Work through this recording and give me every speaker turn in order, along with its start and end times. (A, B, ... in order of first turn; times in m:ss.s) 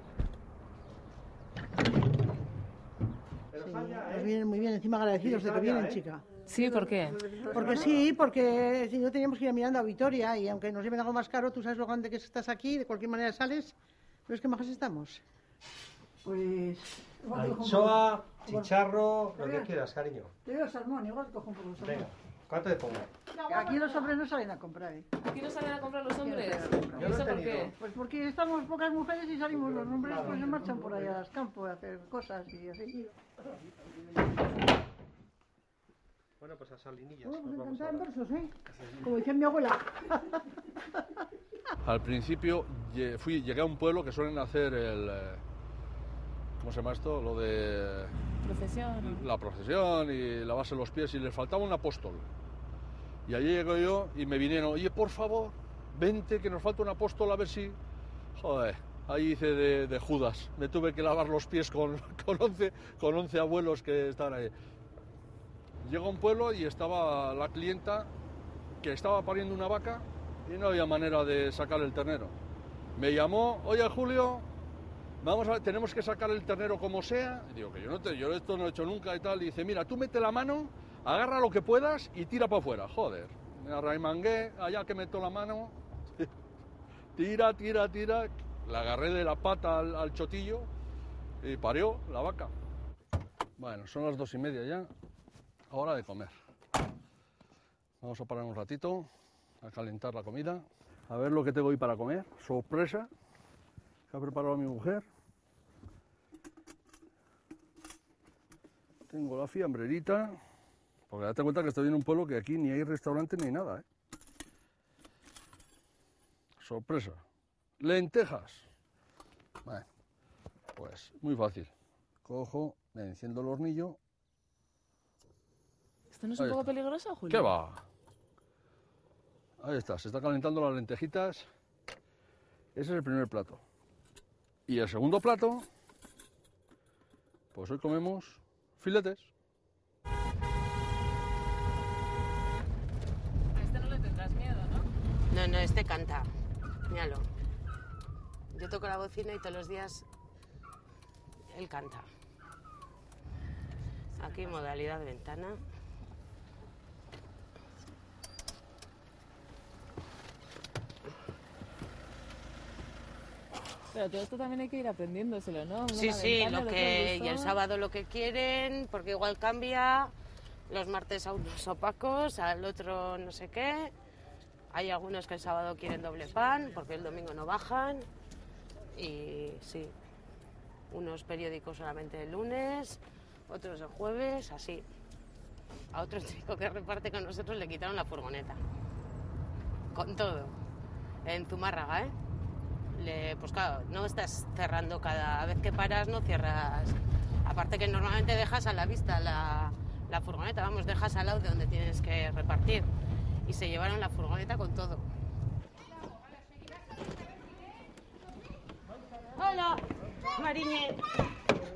0:03.5-0:04.5 A
0:03.6-0:13.7 B
0:05.1-0:06.0 A
0:06.5-0:07.2 C
0:07.0-0:08.1 A
0:14.3-0:15.2 B
0:16.2-0:18.7 B
0:17.3-0:20.3 A
0:19.4-0:19.7 B
0:20.4-0:22.1 B
0:21.8-0:23.1 A
0:23.4-0:25.1 B
0:25.2-0:27.8 C
0:26.2-0:33.1 B
0:26.9-0:27.7 A
0:29.8-0:31.2 A
0:36.4-0:38.1 A
0:37.2-0:40.4 B
0:41.8-0:45.4 D
0:46.6-0:48.2 D
0:48.4-0:49.2 C
0:49.0-0:52.3 D
0:53.3-0:57.8 D
0:58.4-1:04.5 D
1:05.8-1:08.1 D
1:08.8-1:12.4 D
1:13.0-1:14.5 D
1:15.2-1:26.3 D
1:27.2-1:30.7 D
1:31.4-1:32.5 D
1:33.6-1:34.9 D
1:35.7-1:36.3 D
1:38.0-1:39.1 D
1:39.6-1:43.1 D
1:44.1-1:45.1 D
1:49.1-1:50.4 D
1:51.1-1:53.8 D
1:56.6-1:57.2 D
1:57.8-1:58.7 D
2:00.8-2:01.7 D
2:02.2-2:04.0 D
2:06.1-2:07.5 C
2:06.4-2:06.7 D
2:07.3-2:07.8 D
2:09.6-2:11.5 D
2:12.8-2:13.6 D
2:14.7-2:15.7 D
2:17.5-2:19.3 D
2:23.5-2:24.9 C
2:25.3-2:26.3 E
2:26.9-2:27.3 E
2:28.5-2:30.1 E
2:31.5-2:32.1 E
2:34.2-2:35.6 E
2:43.9-2:47.6 C
2:45.9-2:50.1 E
2:50.7-2:53.9 E
2:54.7-2:58.1 E
2:58.9-2:59.9 E
3:00.9-3:04.8 E
3:05.9-3:08.6 E
3:09.9-3:10.6 E
3:11.2-3:12.1 E
3:12.9-3:22.9 E
3:23.5-3:25.1 E
3:29.4-3:31.0 E